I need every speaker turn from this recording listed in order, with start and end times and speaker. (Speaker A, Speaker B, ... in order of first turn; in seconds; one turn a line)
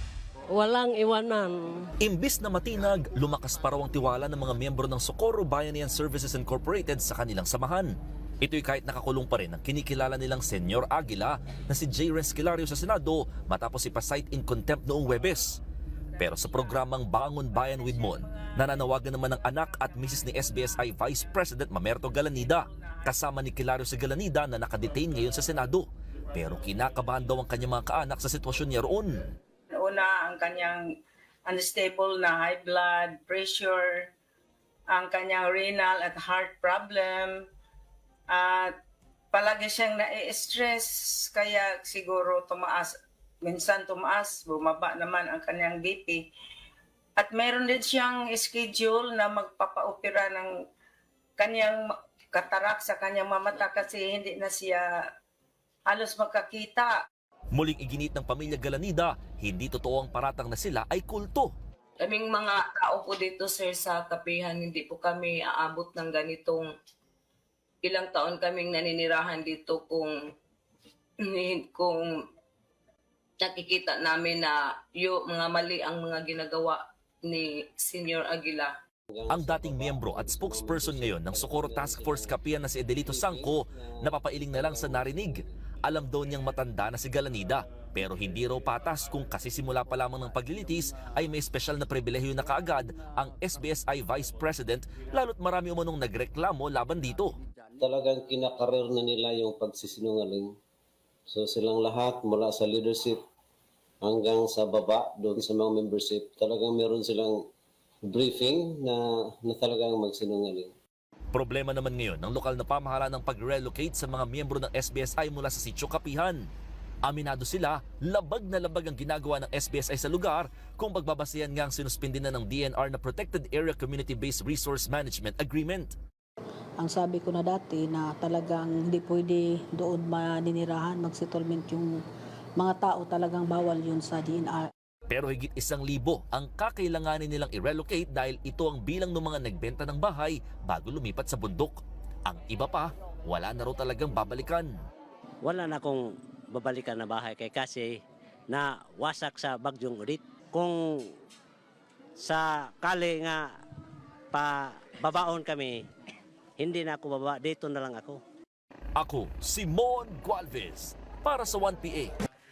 Speaker A: 2.0-15.6
Speaker A: 16.2-29.1
Speaker B: 16.2-21.4
Speaker B: 22.0-23.5
Speaker B: 25.1-25.5
Speaker B: 29.7-30.9
Speaker B: 31.4-34.1
Speaker B: 34.9-37.4
Speaker B: 38.3-38.7
Speaker B: 39.3-46.3
Speaker B: 47.2-50.5
Speaker B: 51.4-55.0
Speaker B: 55.9-57.0
Speaker A: 57.5-61.5
Speaker C: 62.0-66.7
Speaker C: 67.8-70.2
Speaker C: 71.3-72.1
Speaker C: 73.4-78.7
Speaker D: 79.1-82.4
Speaker A: 79.3-97.4
Speaker D: 83.0-85.5
Speaker D: 97.8-100.5
Speaker D: 101.3-103.2
Speaker D: 104.0-107.5
Speaker D: 108.0-110.7
Speaker A: 111.3-116.5
Speaker A: 117.0-126.0
Speaker E: 126.8-132.0
Speaker E: 132.6-134.7
Speaker A: 135.1-144.7
Speaker F: 145.4-147.9
Speaker F: 148.5-150.8
Speaker F: 152.2-153.4
Speaker F: 154.3-155.8
Speaker F: 156.6-158.2
Speaker A: 158.9-162.1